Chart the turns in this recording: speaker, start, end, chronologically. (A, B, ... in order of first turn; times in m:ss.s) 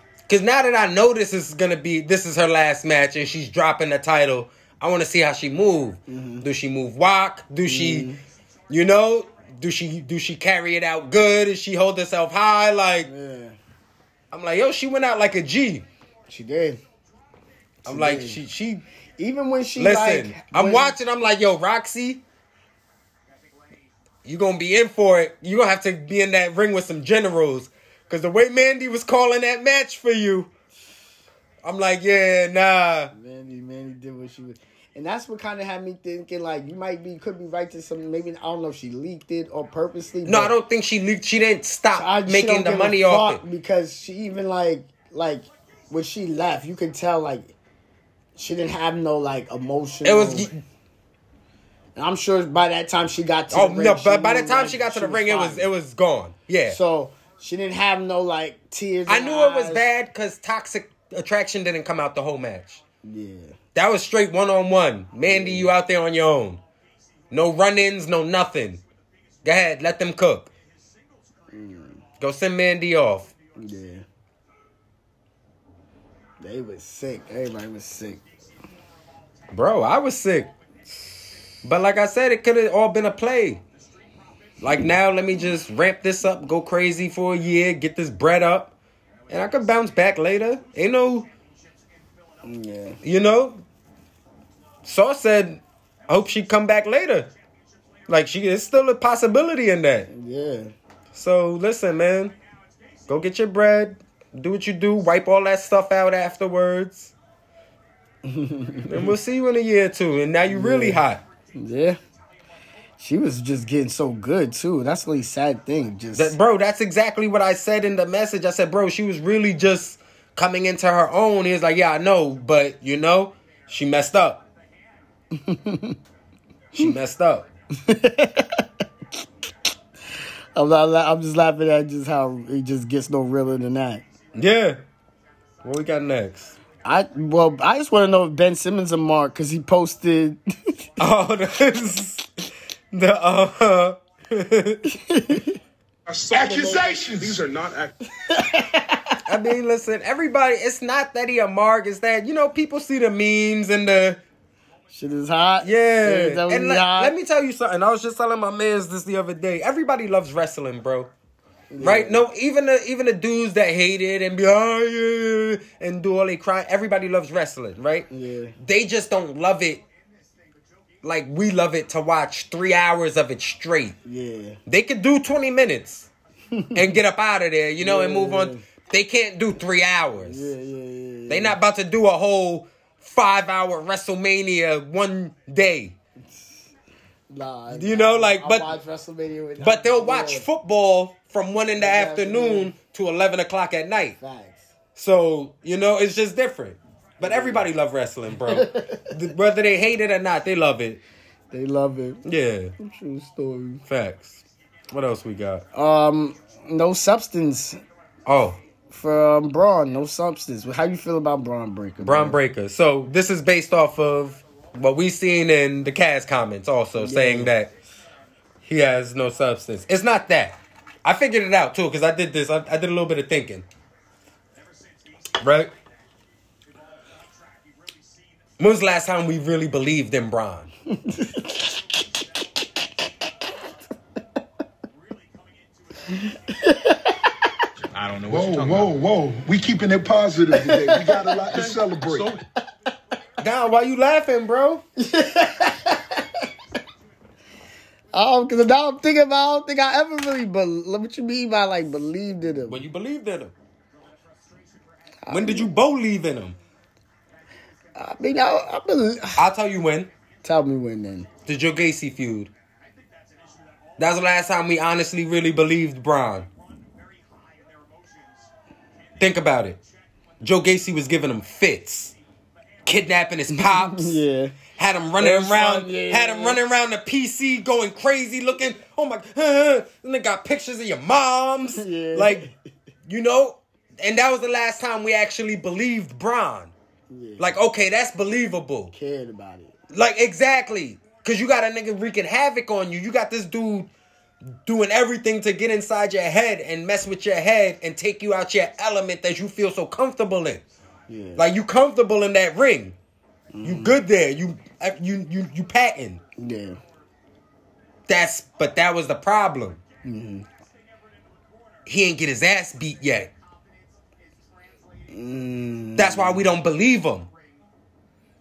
0:00.3-0:08.1 A
0:06.1-0:06.5 B
0:07.6-0:08.2 B
0:08.7-0:13.1 A
0:13.0-0:13.6 B
0:14.3-0:15.8 A
0:16.3-0:16.8 B
0:17.8-0:18.8 A
0:17.9-0:18.4 B
0:19.2-0:21.0 B
0:19.8-0:22.2 A
0:24.2-0:30.5 A
0:31.6-0:33.1 A
0:33.1-0:40.5 B
0:40.2-0:43.4 A
0:41.9-0:47.6 B
0:48.4-0:50.5 B
0:50.0-0:50.6 A
0:52.0-0:55.7 B
0:53.5-0:56.8 A
0:56.7-0:59.9 B
0:59.1-1:02.8 A
1:03.0-1:03.6 B
1:03.8-1:06.6 A
1:05.3-1:05.7 B
1:07.3-1:08.8 A
1:09.4-1:10.5 A
1:11.5-1:12.0 B
1:12.2-1:13.3 A
1:13.6-1:14.0 B
1:16.4-1:18.2 B
1:19.5-1:20.5 A
1:21.6-1:23.6 A
1:24.6-1:28.7 A
1:29.3-1:31.3 A
1:32.4-1:33.0 B
1:33.0-1:33.6 A
1:34.8-1:37.3 A
1:38.1-1:40.1 A
1:40.1-1:40.7 B
1:41.1-1:42.4 A
1:43.1-1:47.1 A
1:48.2-1:49.1 B
1:48.9-1:51.2 A
1:50.5-1:51.0 B
1:51.6-1:52.0 B
1:53.0-1:56.4 B
1:56.1-2:04.4 A
2:05.3-2:06.0 B
2:06.7-2:07.5 A
2:07.8-2:08.6 B
2:10.6-2:14.0 B
2:14.4-2:14.8 A
2:15.6-2:16.6 A
2:16.8-2:20.4 B
2:21.0-2:22.2 A
2:22.9-2:24.8 A
2:24.9-2:25.5 B
2:26.1-2:27.9 C
2:26.3-2:27.4 D
2:28.3-2:29.2 B
2:29.3-2:34.2 A
2:34.9-2:37.1 B
2:35.6-2:41.1 A
2:41.7-2:42.2 B
2:41.8-2:48.1 A
2:48.1-2:48.6 B
2:48.6-2:49.8 A
2:51.0-2:54.0 A
2:54.0-2:54.6 B
2:54.7-2:56.1 A
2:56.5-2:56.9 B
2:56.7-3:00.5 A
2:57.8-2:58.6 B
3:00.2-3:01.6 B
3:01.3-3:06.0 A
3:07.3-3:10.5 B
3:07.7-3:08.7 A
3:09.6-3:14.2 A
3:11.8-3:12.7 B
3:14.2-3:14.7 B
3:15.0-3:21.0 A
3:17.2-3:17.6 B
3:18.5-3:19.1 B
3:21.5-3:22.2 B
3:22.2-3:22.7 A
3:22.8-3:23.8 B
3:23.9-3:25.7 A
3:25.7-3:27.8 B
3:28.3-3:28.6 A
3:28.9-3:32.4 B
3:32.0-3:37.7 A
3:37.0-3:37.5 B
3:38.6-3:43.7 A
3:45.4-3:45.7 A
3:48.6-3:50.7 A
3:50.9-3:51.8 B
3:56.1-3:57.2 B
3:57.9-3:58.9 C
3:58.3-4:02.4 D
4:00.5-4:01.3 B
4:01.5-4:02.4 C
4:03.4-4:04.8 A
4:05.0-4:06.2 B
4:08.1-4:12.8 B
4:12.7-4:13.5 A
4:15.2-4:15.7 B
4:15.3-4:16.6 A
4:18.0-4:19.4 B
4:19.4-4:20.1 A
4:20.4-4:21.3 B
4:21.5-4:22.5 A
4:24.0-4:26.5 A
4:29.2-4:29.8 A
4:30.4-4:32.2 A
4:32.8-4:34.2 A
4:33.5-4:34.6 B
4:34.8-4:42.4 A
4:35.2-4:36.6 B
4:41.8-4:42.5 B
4:43.1-4:46.7 A
4:47.1-4:47.6 B
4:47.4-4:48.9 A
4:48.9-4:49.8 B
4:49.9-4:53.9 A
4:54.5-5:00.6 A
5:01.1-5:01.4 B
5:01.4-5:03.0 A
5:03.5-5:04.0 B
5:03.6-5:06.2 A
5:06.4-5:06.8 B
5:08.1-5:09.8 A
5:10.0-5:10.5 B
5:11.9-5:13.3 A
5:15.1-5:16.5 B
5:16.0-5:17.3 A